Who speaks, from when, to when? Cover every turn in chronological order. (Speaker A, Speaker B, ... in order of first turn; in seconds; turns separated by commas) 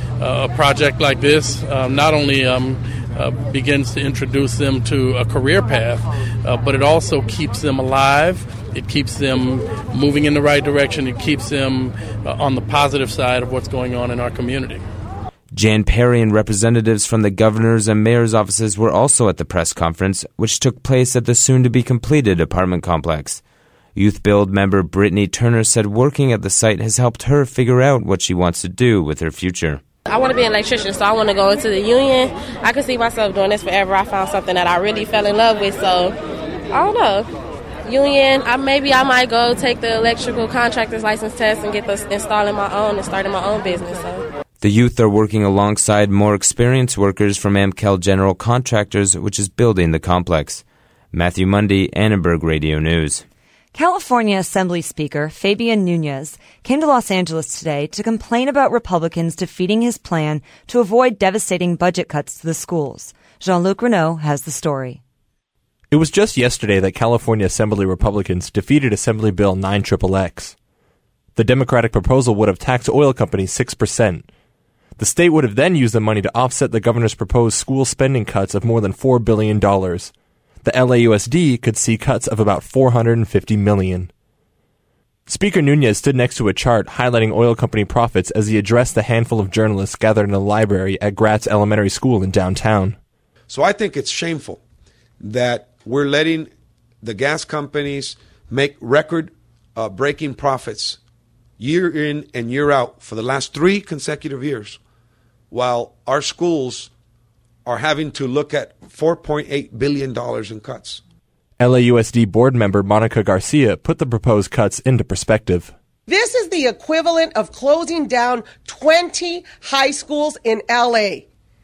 Speaker A: 0.2-14.8, Speaker B: 15.5-23.4, Speaker B: 23.9-29.8, Speaker C: 30.1-36.1, Speaker C: 36.7-37.3, Speaker C: 37.8-44.2, Speaker B: 44.6-53.2, Speaker D: 53.7-65.0, Speaker E: 65.9-70.5, Speaker E: 71.3-74.2, Speaker E: 75.0-80.1, Speaker E: 80.6-84.1, Speaker E: 85.3-93.0, Speaker F: 93.5-94.6, Speaker F: 95.2-96.5, Speaker F: 97.0-101.0, Speaker F: 101.6-104.8, Speaker F: 105.5-106.9, Speaker F: 107.6-111.0, Speaker E: 111.6-115.7, Speaker G: 116.1-121.2